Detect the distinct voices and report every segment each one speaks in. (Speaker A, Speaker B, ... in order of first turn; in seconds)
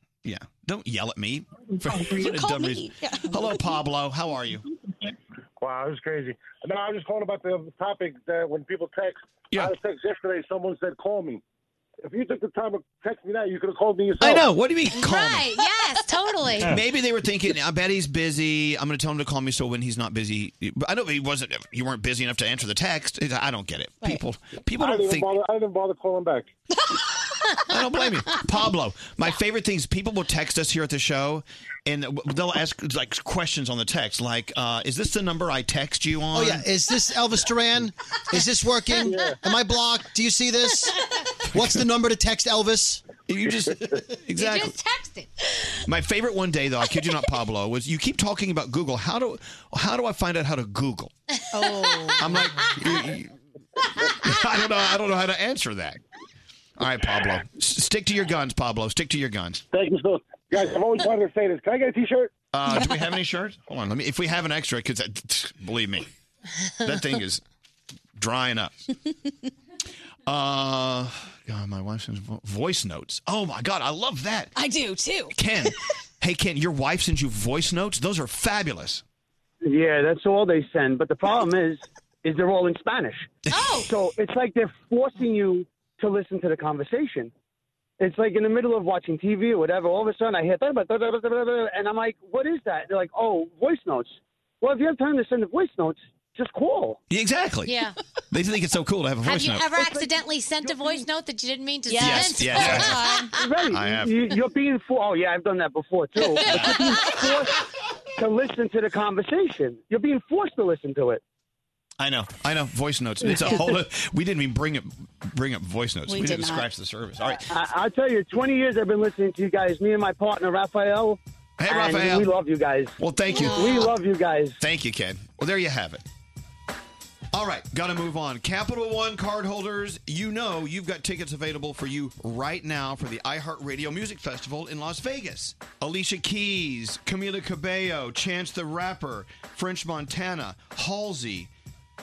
Speaker A: 0.2-4.7, 14.2-15.5, 16.6-25.4, 27.7-36.7, 41.5-41.8, 43.3-44.8, 45.9-51.1, 52.2-53.3, 54.2-56.0, 56.8-59.6, 62.5-66.1, 66.8-67.4, 68.2-68.7, 70.3-74.5, 75.4-79.0, 97.1-97.7, 98.3-99.7, 102.0-103.0, 103.7-104.2, 112.0-117.5, 121.6-122.3, 123.0-123.9, 124.6-126.0, 127.3-141.5
Speaker B: 1.9-3.6, 51.5-52.5, 74.6-75.4, 101.9-103.3, 116.1-116.7
Speaker C: 5.6-11.4, 12.0-14.4, 24.8-26.5, 39.1-39.3, 59.7-62.3
Speaker D: 14.9-16.8, 44.4-45.3, 51.6-52.4, 83.5-83.9, 97.7-98.0, 99.2-103.5, 106.3-107.1, 123.3-123.9
Speaker E: 36.3-40.9, 41.5-43.0
Speaker F: 79.6-83.3, 83.8-87.3, 88.0-97.0, 103.4-107.7, 108.2-111.2, 117.5-124.6